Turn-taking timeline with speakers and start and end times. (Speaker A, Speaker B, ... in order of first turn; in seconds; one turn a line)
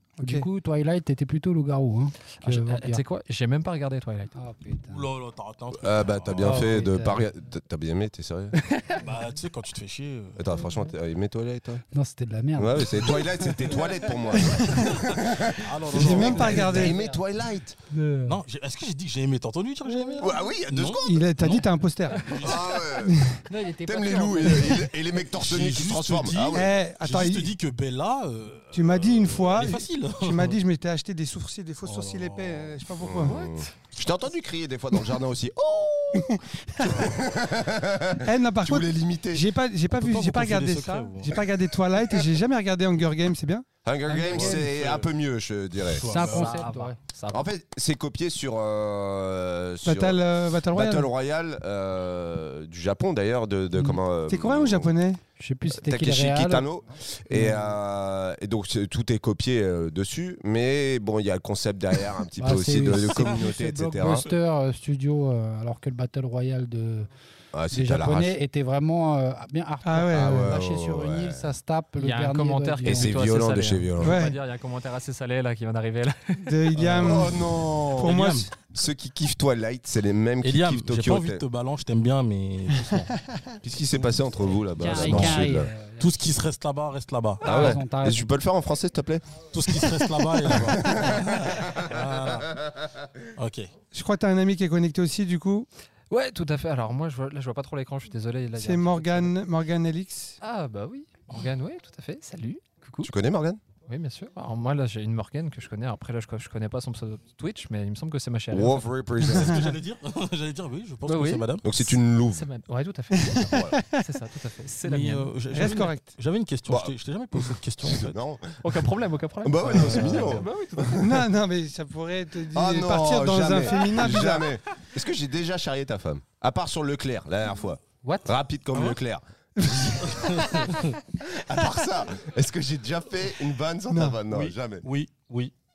Speaker A: 0.2-0.5
Speaker B: 0.2-3.0
Speaker C: 2.4-4.3
Speaker B: 4.4-5.1
Speaker D: 4.9-6.8
Speaker E: 5.7-8.6
Speaker B: 6.4-7.2
Speaker C: 8.6-9.0
Speaker D: 9.0-10.4
Speaker E: 10.4-11.8
Speaker B: 11.9-13.7
Speaker E: 12.6-17.8
Speaker A: 14.4-15.0
Speaker D: 15.5-16.9
Speaker A: 15.9-17.0
Speaker B: 16.5-17.2
Speaker B: 17.9-18.4
Speaker D: 18.2-22.8
Speaker E: 20.2-21.2
Speaker A: 21.0-22.4
Speaker E: 22.3-26.7
Speaker A: 23.0-23.3
Speaker B: 23.5-24.9
Speaker D: 25.3-30.6
Speaker A: 26.5-27.5
Speaker A: 28.7-33.4
Speaker D: 31.8-32.8
Speaker E: 33.0-39.4
Speaker C: 33.2-33.6
Speaker A: 36.1-37.1
Speaker A: 38.2-43.7
Speaker D: 39.9-41.4
Speaker E: 43.8-46.1
Speaker B: 44.1-44.7
Speaker D: 44.3-45.1
Speaker D: 45.9-46.6
Speaker B: 46.1-47.0
Speaker C: 46.3-47.5
Speaker E: 47.3-50.2
Speaker A: 49.8-51.1
Speaker E: 50.7-54.9
Speaker A: 54.3-55.2
Speaker B: 55.4-56.7
Speaker E: 55.7-64.3
Speaker B: 57.3-57.7
Speaker B: 62.4-67.1
Speaker D: 62.9-63.4
Speaker E: 67.5-68.4
Speaker B: 67.7-73.2
Speaker A: 69.8-70.6
Speaker E: 70.1-71.5
Speaker C: 72.0-76.6
Speaker E: 72.9-74.2
Speaker A: 74.0-74.4
Speaker A: 76.4-78.5
Speaker D: 76.8-77.3
Speaker E: 77.0-81.4
Speaker D: 78.0-78.5
Speaker D: 80.4-83.2
Speaker E: 83.6-85.7
Speaker B: 84.8-86.1
Speaker D: 84.9-85.5
Speaker D: 86.0-87.4
Speaker B: 87.4-88.3
Speaker E: 87.4-89.5
Speaker D: 89.5-92.6
Speaker E: 90.5-92.0
Speaker D: 93.4-93.7
Speaker A: 93.9-95.7
Speaker C: 96.1-99.3
Speaker A: 98.5-100.4
Speaker C: 100.4-103.1
Speaker E: 103.0-103.6
Speaker C: 103.9-108.9
Speaker E: 108.5-109.7
Speaker D: 109.2-111.7
Speaker C: 111.0-115.3
Speaker E: 111.6-112.5
Speaker A: 113.2-114.0
Speaker E: 113.3-113.8
Speaker D: 114.8-118.2
Speaker A: 115.5-116.0
Speaker E: 116.7-118.9
Speaker C: 118.6-121.1
Speaker E: 119.4-121.1
Speaker D: 119.7-120.4
Speaker A: 120.9-124.5
Speaker E: 122.5-130.6
Speaker A: 129.6-130.0
Speaker D: 130.0-130.9
Speaker E: 131.2-134.9
Speaker A: 133.9-134.2
Speaker D: 134.3-135.5